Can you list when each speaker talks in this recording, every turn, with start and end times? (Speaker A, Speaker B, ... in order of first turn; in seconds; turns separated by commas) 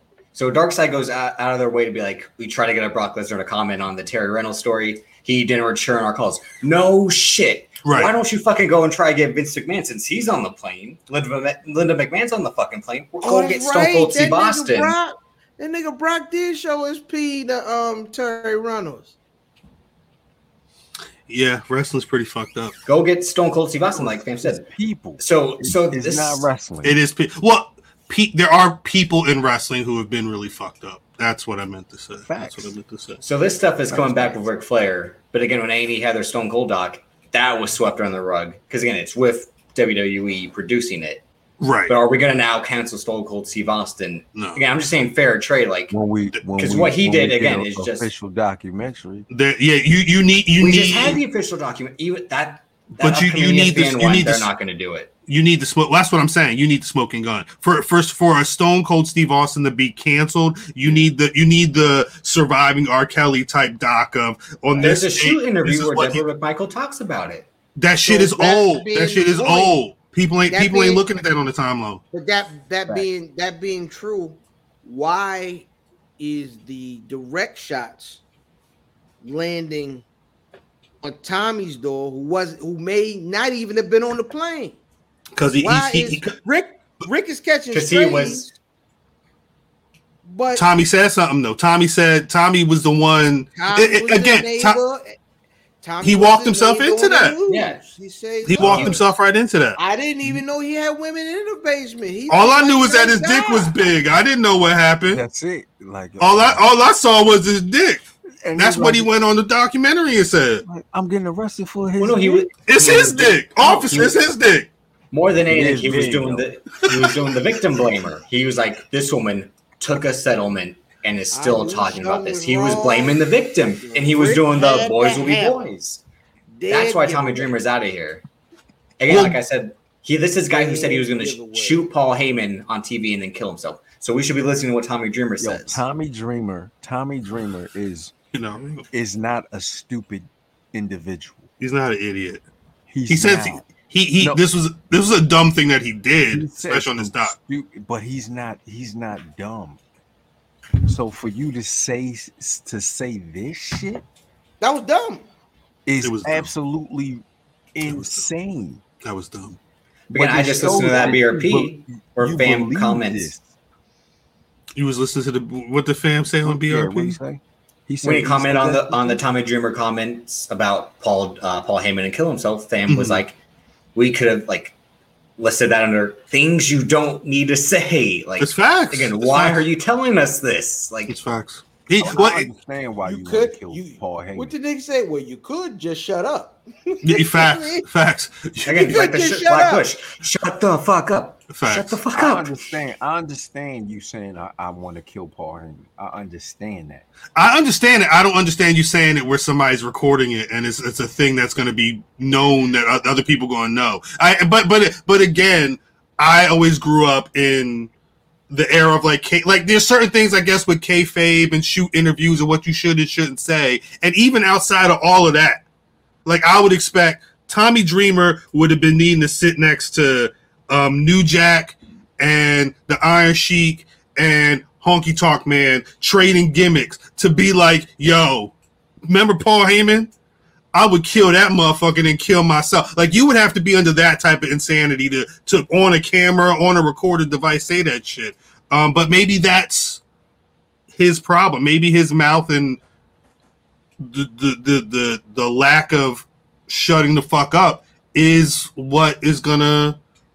Speaker A: 0.3-15.0, Speaker B: 7.8-8.1, Speaker C: 13.2-19.1, Speaker B: 21.3-22.7, Speaker A: 22.9-24.7, Speaker D: 23.9-26.9, Speaker A: 25.2-26.5, Speaker B: 26.8-33.2, Speaker D: 32.3-32.8, Speaker A: 33.2-41.2, Speaker D: 33.9-34.5, Speaker B: 41.6-42.0, Speaker A: 41.9-46.0, Speaker B: 44.4-44.6, Speaker D: 45.9-49.3, Speaker A: 46.6-48.1, Speaker B: 49.3-51.2, Speaker A: 50.6-55.1, Speaker B: 53.0-54.5, Speaker B: 55.3-66.2, Speaker A: 64.7-67.5, Speaker B: 67.8-72.0, Speaker C: 68.0-69.8, Speaker C: 70.5-71.0, Speaker C: 72.1-75.7, Speaker C: 76.2-78.2, Speaker C: 79.2-80.0, Speaker C: 81.0-84.8, Speaker B: 85.4-86.3, Speaker C: 85.6-88.5, Speaker A: 87.7-88.5, Speaker C: 90.2-90.7, Speaker B: 90.5-94.8, Speaker C: 93.6-95.2, Speaker C: 95.8-99.0, Speaker B: 96.0-97.4, Speaker A: 97.5-97.8, Speaker B: 98.5-99.8, Speaker A: 98.6-99.0, Speaker C: 99.8-103.8, Speaker B: 102.3-105.2, Speaker D: 105.1-106.6, Speaker B: 106.2-108.0, Speaker D: 108.4-109.1, Speaker B: 108.6-110.6, Speaker D: 110.6-113.1, Speaker A: 112.0-114.1, Speaker B: 112.7-114.7, Speaker A: 115.1-126.0, Speaker D: 115.5-116.5, Speaker C: 121.3-125.7, Speaker C: 126.5-127.5, Speaker A: 126.7-128.2, Speaker A: 129.0-135.8, Speaker B: 129.1-129.4, Speaker C: 130.5-131.9, Speaker D: 135.4-138.1, Speaker B: 138.3-138.8, Speaker D: 138.9-141.5, Speaker B: 141.6-142.4, Speaker D: 142.9-143.7, Speaker B: 143.1-147.3, Speaker D: 146.3-149.8, Speaker D: 150.9-154.1, Speaker C: 154.6-155.3, Speaker D: 155.9-157.2, Speaker B: 156.0-156.5, Speaker D: 157.7-158.8, Speaker B: 157.9-158.3, Speaker B: 159.0-159.6, Speaker A: 160.1-163.4, Speaker D: 160.1-163.4, Speaker B: 164.8-167.2, Speaker D: 166.4-169.2, Speaker A: 168.0-173.4, Speaker B: 172.9-173.2, Speaker A: 173.9-174.8, Speaker A: 175.4-181.2, Speaker B: 178.4-179.6, Speaker B: 181.1-182.5, Speaker D: 182.0-184.5, Speaker C: 183.1-187.9, Speaker B: 187.0-189.0, Speaker A: 188.7-192.5, Speaker C: 188.8-189.9, Speaker B: 191.5-192.0, Speaker D: 192.1-197.1, Speaker B: 197.4-207.9, Speaker B: 208.5-215.6, Speaker B: 216.2-228.5, Speaker B: 229.1-230.1, Speaker B: 230.7-240.0, Speaker B: 240.9-242.8, Speaker B: 244.0-250.0